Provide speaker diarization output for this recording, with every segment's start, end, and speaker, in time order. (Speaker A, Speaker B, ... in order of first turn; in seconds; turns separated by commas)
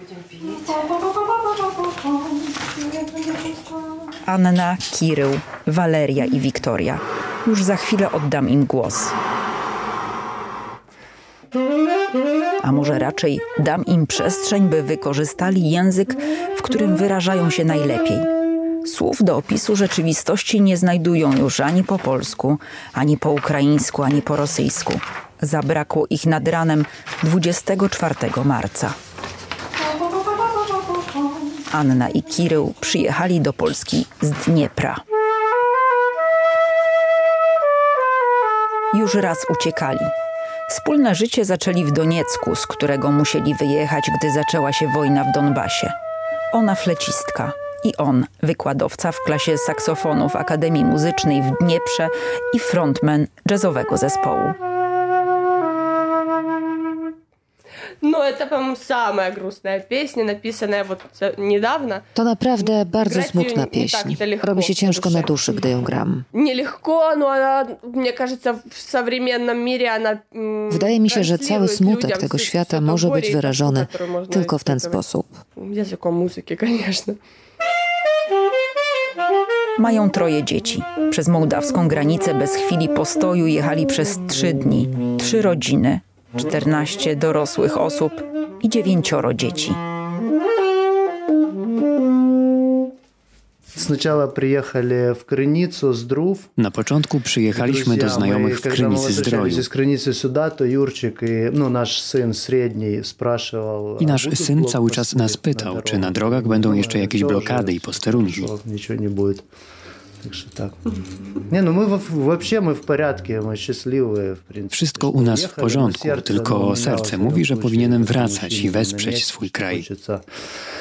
Speaker A: 4.2-9.1, Speaker A: 12.6-18.3, Speaker A: 18.8-28.9, Speaker A: 31.7-35.0, Speaker A: 38.9-40.1, Speaker A: 40.7-45.9, Speaker A: 46.5-54.5, Speaker B: 58.0-62.0, Speaker C: 62.1-66.2, Speaker B: 62.6-65.7, Speaker B: 66.3-75.0, Speaker C: 70.7-75.4, Speaker B: 75.5-77.2, Speaker A: 79.8-89.8, Speaker D: 93.8-96.5, Speaker E: 96.6-99.7, Speaker D: 97.5-109.5, Speaker E: 104.0-108.5, Speaker D: 110.2-111.0, Speaker D: 111.5-120.2, Speaker E: 114.7-119.9